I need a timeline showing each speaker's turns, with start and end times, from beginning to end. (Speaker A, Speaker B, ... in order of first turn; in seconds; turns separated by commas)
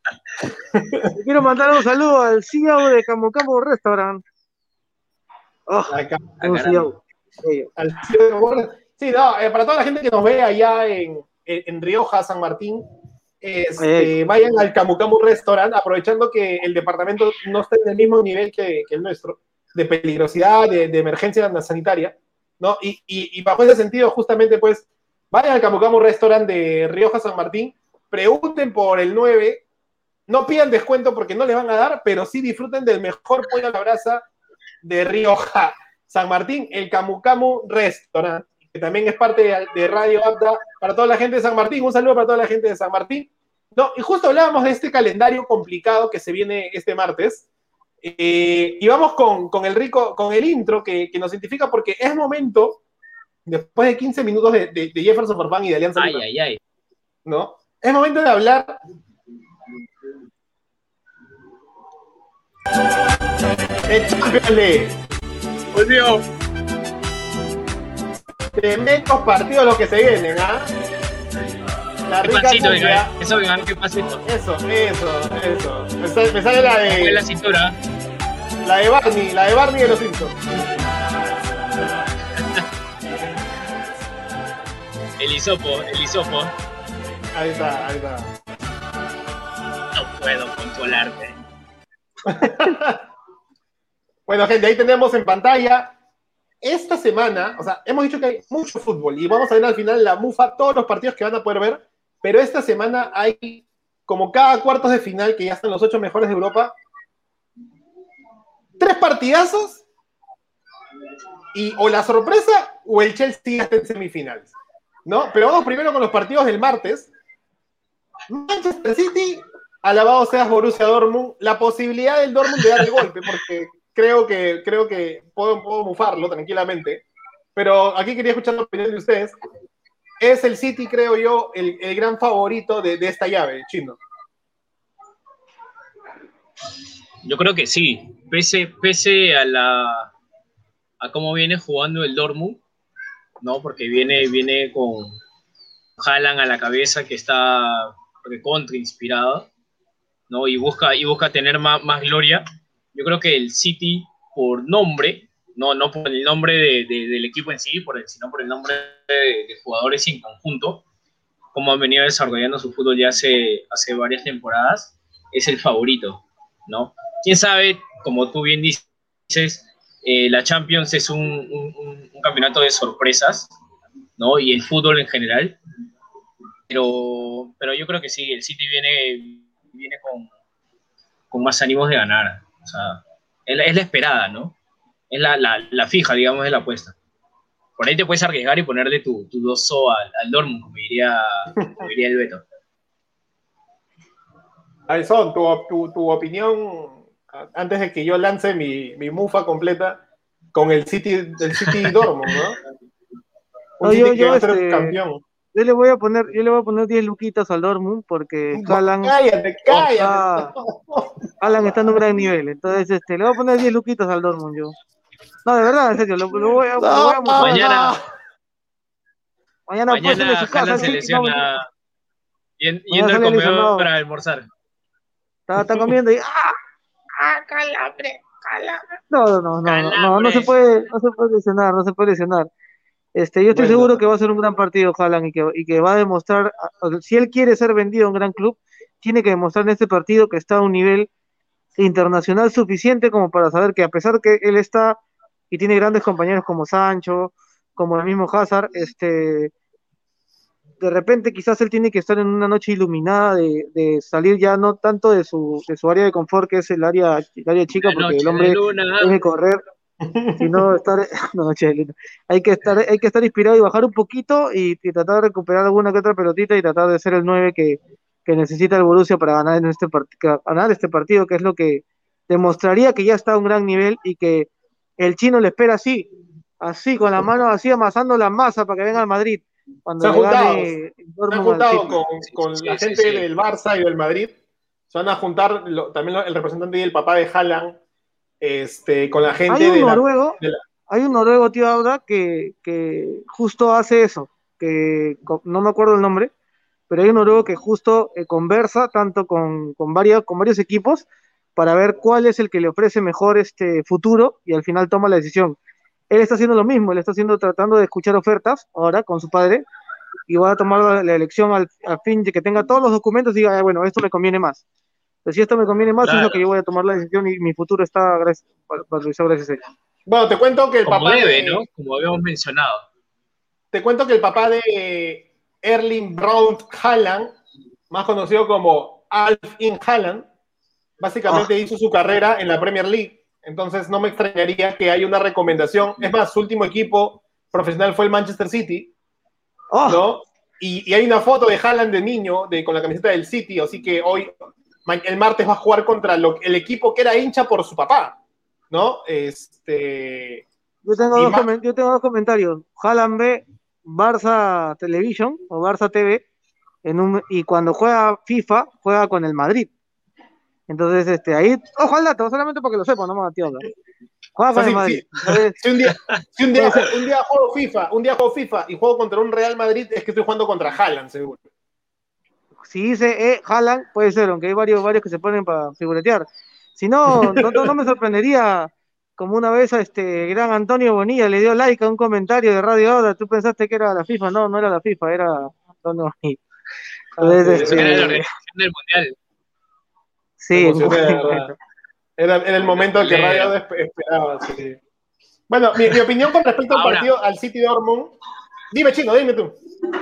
Speaker A: 0.7-1.1, Speaker B: 1.2-4.2, Speaker B: 5.7-7.7, Speaker A: 5.9-6.3, Speaker C: 6.4-6.8, Speaker A: 7.8-12.8, Speaker A: 13.4-29.6, Speaker B: 13.8-14.1, Speaker A: 30.3-34.3, Speaker A: 34.8-47.5, Speaker A: 48.0-52.8, Speaker A: 53.5-56.2, Speaker C: 56.0-56.6, Speaker A: 57.3-58.8, Speaker A: 63.9-65.0, Speaker C: 65.7-66.3, Speaker A: 68.5-70.7, Speaker A: 72.1-73.1, Speaker C: 72.2-74.2, Speaker A: 74.2-77.2, Speaker C: 76.9-77.8, Speaker A: 78.6-80.4, Speaker C: 85.2-86.5, Speaker A: 87.3-88.3, Speaker C: 89.9-91.4, Speaker A: 92.3-93.1, Speaker A: 94.3-96.0, Speaker A: 96.6-106.8, Speaker A: 108.8-109.8, Speaker A: 111.5-114.5, Speaker A: 115.1-117.1, Speaker A: 118.3-127.0, Speaker A: 127.5-129.3, Speaker A: 130.2-134.0, Speaker C: 137.2-140.1, Speaker C: 141.0-142.6, Speaker C: 143.4-145.1, Speaker C: 146.0-149.5, Speaker C: 150.3-152.4, Speaker C: 152.9-160.8, Speaker C: 161.5-173.5, Speaker C: 174.2-175.6, Speaker C: 176.7-180.3, Speaker C: 181.3-184.6, Speaker C: 185.1-187.0, Speaker C: 187.8-192.4, Speaker A: 194.9-200.0, Speaker A: 200.5-202.6, Speaker C: 201.6-202.0, Speaker A: 203.8-205.2, Speaker B: 203.8-205.0, Speaker B: 205.5-209.2, Speaker A: 208.5-211.2, Speaker B: 209.7-210.5, Speaker B: 211.4-214.8, Speaker B: 215.4-217.9, Speaker A: 216.8-218.0, Speaker C: 217.4-218.0, Speaker B: 219.7-221.5, Speaker C: 219.9-221.7, Speaker C: 222.6-224.5, Speaker B: 222.9-223.9, Speaker B: 225.5-226.6, Speaker B: 227.2-232.5, Speaker C: 229.7-230.5, Speaker B: 233.2-241.1, Speaker A: 233.5-234.0, Speaker B: 241.8-245.0, Speaker B: 245.5-249.5, Speaker B: 250.8-259.6, Speaker C: 257.8-259.1, Speaker A: 260.0-260.5, Speaker B: 260.4-276.1, Speaker B: 276.6-282.0, Speaker A: 280.0-280.8, Speaker A: 281.3-284.3, Speaker C: 282.3-283.2, Speaker A: 284.9-287.8, Speaker A: 288.4-290.6, Speaker B: 289.5-296.3, Speaker B: 296.9-305.6, Speaker B: 306.1-309.6, Speaker B: 310.3-314.6, Speaker B: 315.2-319.6, Speaker C: 316.0-316.4, Speaker A: 320.1-321.6, Speaker C: 320.9-322.9, Speaker A: 323.7-327.4, Speaker A: 327.9-330.3, Speaker A: 331.0-338.9, Speaker B: 339.7-340.0, Speaker A: 339.9-344.3, Speaker A: 344.9-348.2, Speaker A: 348.7-350.4, Speaker B: 350.9-356.2, Speaker A: 351.2-351.5, Speaker B: 356.9-359.7, Speaker B: 360.7-363.6, Speaker B: 364.4-365.6, Speaker A: 364.5-371.4, Speaker B: 372.7-386.4, Speaker A: 377.1-377.7, Speaker B: 387.2-388.3, Speaker A: 387.2-388.1, Speaker C: 387.6-389.1, Speaker B: 390.4-391.5, Speaker A: 390.5-391.5, Speaker A: 392.2-394.8, Speaker C: 392.7-393.5, Speaker A: 395.5-398.1, Speaker C: 396.7-397.1, Speaker A: 398.7-399.6